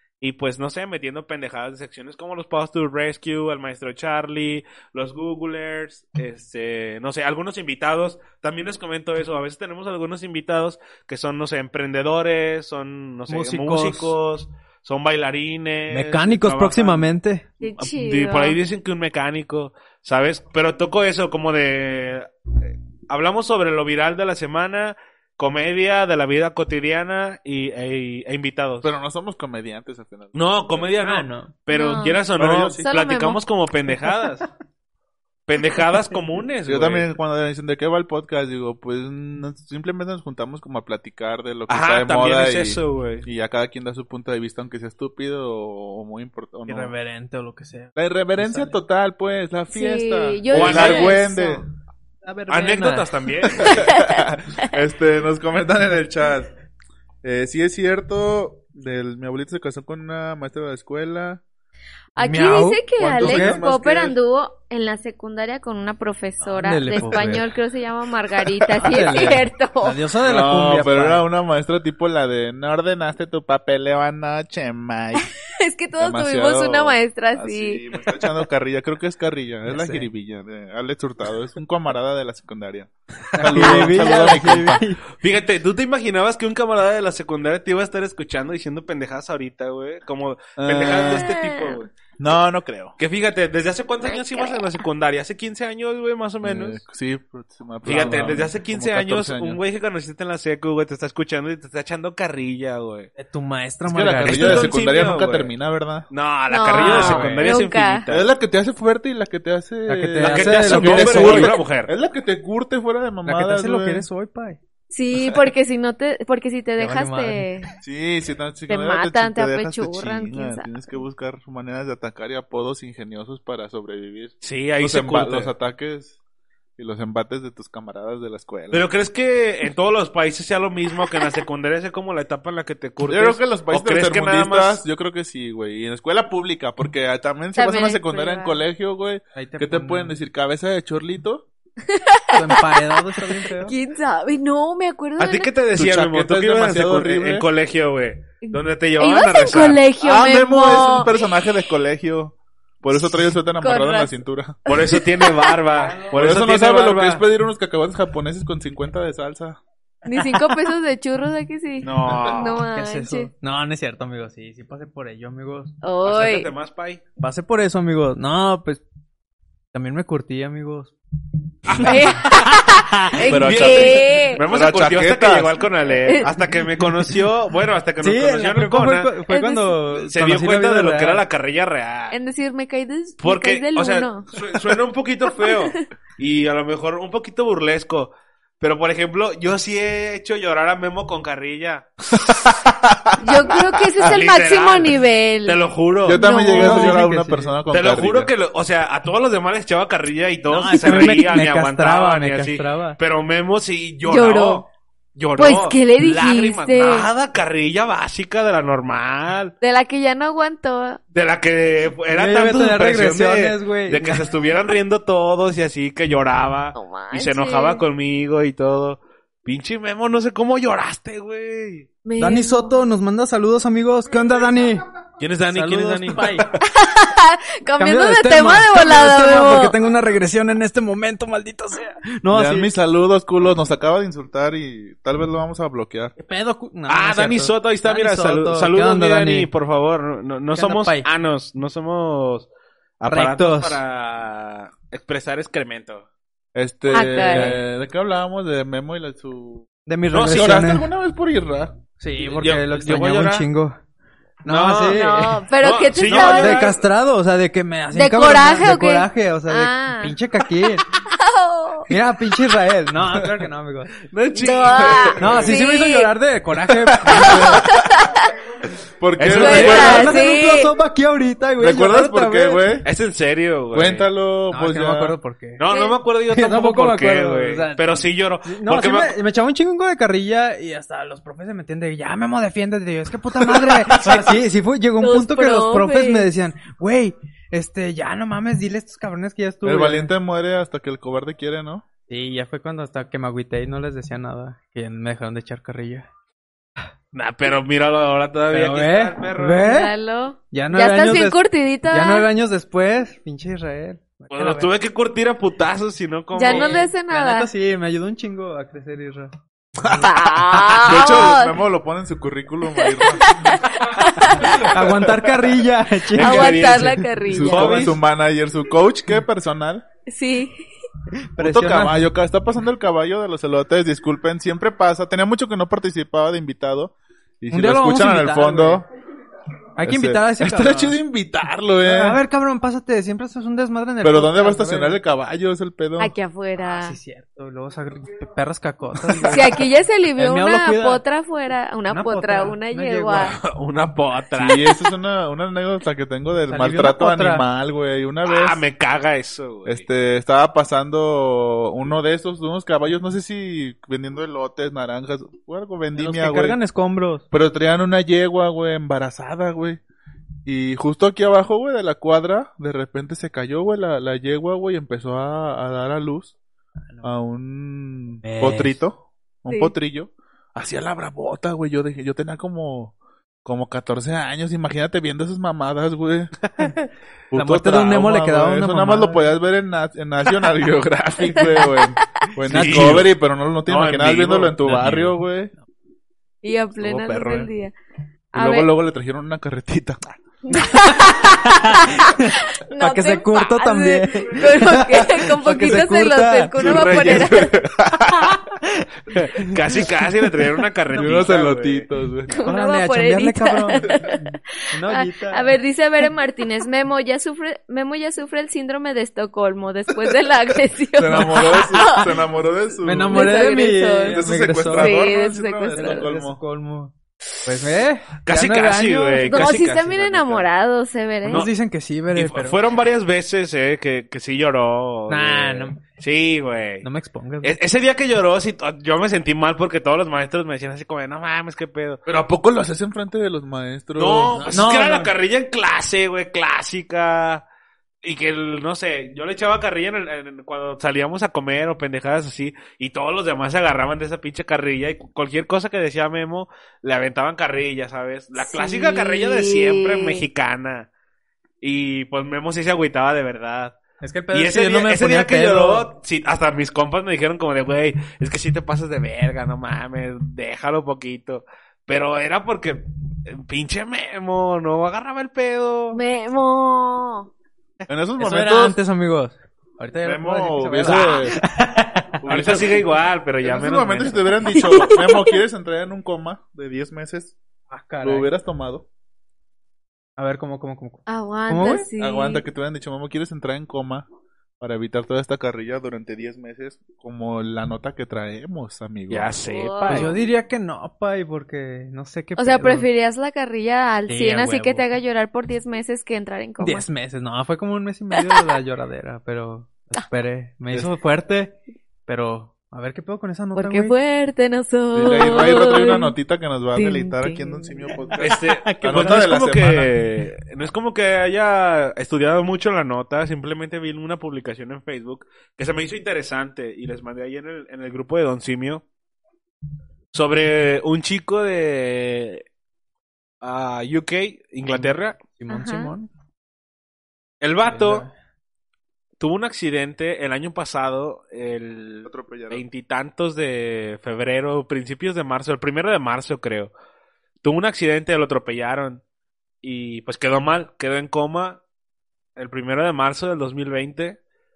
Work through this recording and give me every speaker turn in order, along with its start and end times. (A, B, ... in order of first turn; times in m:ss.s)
0:00.2-0:17.1 A
0:13.3-0:14.2 B
0:15.9-0:17.4 B
0:17.6-0:18.6 C
0:17.8-0:28.9 A
0:28.8-0:30.4 D
0:30.3-0:34.5 A
0:31.0-0:31.5 B
0:31.7-0:32.2 C
0:32.4-0:32.8 D
0:32.8-0:33.4 C
0:35.5-0:37.1 A
0:36.6-0:46.9 D
0:41.7-0:43.3 A
0:46.7-0:48.8 B
0:48.0-0:51.6 D
0:49.7-0:51.6 C
0:50.5-0:51.2 A
0:52.2-0:53.1 B
0:52.5-0:53.9 A
0:53.6-0:56.5 D
0:53.8-0:54.2 C
0:57.2-1:01.4 D
1:02.2-1:10.0 C
1:02.2-1:03.6 B
1:03.0-1:04.2 D
1:06.4-1:07.5 B
1:08.7-1:09.3 D
1:08.8-1:11.2 B
1:10.2-1:15.3 D
1:15.2-1:17.8 C
1:16.0-1:24.8 D
1:19.7-1:20.1 B
1:23.3-1:25.0 B
1:25.2-1:31.9 A
1:30.6-1:31.3 D
1:31.0-1:31.8 C
1:32.2-1:33.0 D
1:33.0-1:36.8 A
1:34.0-1:34.7 C
1:36.4-1:39.6 D
1:37.8-1:43.1 A
1:37.8-1:38.5 B
1:43.2-1:44.7 B
1:43.9-1:46.1 D
1:44.2-1:45.5 A
1:46.1-1:48.3 A
1:46.5-1:48.0 C
1:46.7-1:47.5 B
1:48.1-1:54.1 D
1:49.9-1:51.5 B
1:50.2-1:51.9 A
1:53.2-1:54.6 B
1:54.9-1:57.7 C
1:56.8-1:57.5 B
1:57.8-2:06.2 D
1:58.7-2:00.7 C
2:04.4-2:05.5 A
2:06.8-2:08.9 D
2:08.7-2:14.8 A
2:13.1-2:21.4 D
2:17.6-2:18.6 C
2:19.3-2:20.2 B
2:21.9-2:22.8 C
2:22.3-2:23.7 B
2:23.6-2:25.5 C
2:25.2-2:29.8 A
2:25.7-2:27.5 D
2:28.4-2:31.1 C
2:30.0-2:34.6 D
2:33.6-2:34.1 C
2:34.6-2:35.6 C
2:34.7-2:37.2 A
2:36.1-2:39.6 D
2:40.0-2:43.3 C
2:40.1-2:40.5 B
2:41.8-2:42.6 A
2:42.7-2:45.7 B
2:45.8-2:46.5 C
2:46.0-2:47.0 A
2:47.2-2:48.8 B
2:49.7-2:50.9 B
2:51.7-2:52.6 A
2:51.8-2:54.4 C
2:53.2-2:59.2 A
2:53.3-2:55.6 D
2:56.7-2:57.2 B
2:58.0-3:01.2 B
2:59.3-2:59.8 C
2:59.9-3:02.2 A
3:02.1-3:04.3 C
3:03.2-3:12.1 A
3:05.4-3:05.8 C
3:12.1-3:13.4 D
3:13.2-3:15.6 C
3:14.0-3:16.3 A
3:16.0-3:18.3 D
3:16.2-3:17.0 C
3:16.5-3:17.6 B
3:17.7-3:29.5 A
3:20.5-3:23.0 B
3:24.0-3:24.6 C
3:25.4-3:27.1 C
3:29.6-3:31.0 C
3:31.1-3:41.9 A
3:32.1-3:34.2 B
3:36.8-3:37.8 C
3:42.0-3:42.8 C
3:42.2-3:44.8 B
3:45.2-3:46.3 A
3:45.5-3:46.5 B
3:46.6-3:49.7 C
3:47.8-3:52.7 B
3:52.3-3:56.1 D
3:56.2-3:59.5 B
3:56.9-4:02.5 A
4:00.5-4:01.1 B
4:03.0-4:06.0 A
4:03.1-4:03.8 B
4:06.5-4:09.6 D
4:06.9-4:07.6 C
4:07.0-4:07.6 B
4:09.8-4:10.9 B
4:10.1-4:10.6 A
4:10.3-4:11.7 D
4:12.0-4:13.8 B
4:12.4-4:13.4 A
4:14.4-4:15.4 B
4:14.4-4:15.0 A
4:14.9-4:16.8 C
4:15.6-4:16.8 A
4:16.1-4:20.8 B
4:17.9-4:20.2 C
4:21.0-4:21.9 C
4:21.9-4:23.9 B
4:24.0-4:25.5 A
4:24.3-4:26.1 C
4:24.8-4:25.4 D
4:25.2-4:27.6 B
4:27.1-4:28.3 C
4:27.1-4:27.5 D
4:29.0-4:30.2 D
4:29.2-4:30.2 A
4:29.3-4:32.8 B
4:29.3-4:30.7 C
4:31.6-4:32.9 D
4:32.8-4:34.1 A
4:33.7-4:35.1 D
4:34.5-4:35.6 B
4:35.6-4:39.2 A
4:35.7-4:36.0 C
4:36.3-4:50.1 B
4:43.4-4:44.2 D
4:45.0-4:46.3 C
4:49.6-4:51.8 D
4:52.1-4:56.1 B
4:57.1-4:59.6 A
4:58.5-4:59.9 B
4:59.6-5:02.3 C
5:00.5-5:04.7 B
5:04.3-5:06.9 A
5:06.3-5:07.5 C
5:06.4-5:09.3 B
5:09.8-5:10.1 D
5:09.9-5:11.6 C
5:10.7-5:13.5 D
5:12.8-5:14.7 C
5:14.5-5:18.0 B
5:14.8-5:15.4 D
5:16.1-5:18.0 A
5:16.1-5:17.8 C
5:17.3-5:19.8 D
5:20.1-5:20.6 C
5:21.3-5:22.1 B
5:21.4-5:28.8 D
5:27.5-5:28.8 B
5:29.8-5:31.0 B
5:29.8-5:32.2 D
5:31.8-5:35.0 B
5:34.0-5:36.1 D
5:36.0-5:37.0 C
5:36.6-5:39.6 B
5:39.2-5:43.4 C
5:40.2-5:41.0 B
5:41.9-5:43.4 B
5:43.1-5:44.8 A
5:44.3-5:48.6 D
5:46.5-5:47.4 B
5:48.2-5:49.8 A
5:49.6-5:56.6 D
5:55.9-5:57.2 B
5:57.3-5:59.8 D
6:00.4-6:06.3 D
6:07.0-6:12.9 D
6:08.2-6:08.8 B
6:09.5-6:09.7 C
6:13.4-6:16.3 D
6:17.3-6:25.5 D
6:17.3-6:19.3 B
6:21.2-6:22.0 C
6:22.4-6:23.1 B
6:22.5-6:23.1 A
6:23.7-6:25.1 A
6:26.4-6:27.7 C
6:26.8-6:27.5 D
6:28.3-6:28.7 C
6:28.3-6:30.2 D
6:30.5-6:37.6 C
6:30.5-6:37.2 B
6:36.6-6:38.4 D
6:36.6-6:37.4 A
6:38.6-6:39.9 B
6:39.1-6:41.9 A
6:40.9-6:42.4 D
6:42.3-6:44.2 C
6:42.4-6:45.6 B
6:44.8-6:52.1 C
6:50.9-6:53.5 D
6:52.8-6:55.0 B
6:53.1-6:56.0 C
6:54.0-6:56.4 D
6:55.7-6:59.5 B
6:58.2-7:00.4 A
6:59.2-7:01.5 C
7:01.2-7:01.5 A
7:01.2-7:02.6 B
7:02.1-7:06.8 A
7:05.1-7:05.8 B
7:06.8-7:07.5 B
7:07.4-7:12.0 A
7:12.0-7:14.6 D
7:14.0-7:17.4 A
7:14.4-7:15.1 B
7:18.0-7:30.9 A
7:28.4-7:30.2 C
7:31.6-7:33.8 A
7:34.0-7:35.9 B
7:34.3-7:46.0 A
7:45.9-7:47.3 C
7:47.9-7:48.8 D
7:48.2-7:52.1 B
7:50.0-7:51.4 D
7:50.8-7:51.3 A
7:52.2-7:52.9 D
7:52.3-7:54.6 A
7:53.4-7:57.4 D
7:54.5-7:55.3 C
7:57.7-7:58.3 B
7:58.0-7:58.8 D
8:00.2-8:01.9 B
8:01.1-8:02.4 C
8:02.0-8:04.0 D
8:04.6-8:09.3 D
8:09.1-8:10.1 A
8:09.4-8:10.2 C
8:09.9-8:12.9 B
8:12.4-8:16.9 C
8:14.1-8:14.8 B
8:16.6-8:21.6 B
8:22.1-8:23.9 B
8:23.6-8:26.1 C
8:24.9-8:29.9 D
8:26.7-8:27.9 C
8:28.2-8:38.8 A
8:28.4-8:29.2 B
8:40.1-8:42.4 A
8:43.4-8:45.2 A
8:44.6-8:46.1 B
8:45.5-8:45.9 C
8:47.4-8:48.0 A
8:47.6-8:48.1 B
8:49.2-8:56.7 A
8:52.0-8:52.6 D
8:57.4-8:59.0 A
8:59.6-9:01.6 A
9:02.4-9:04.2 A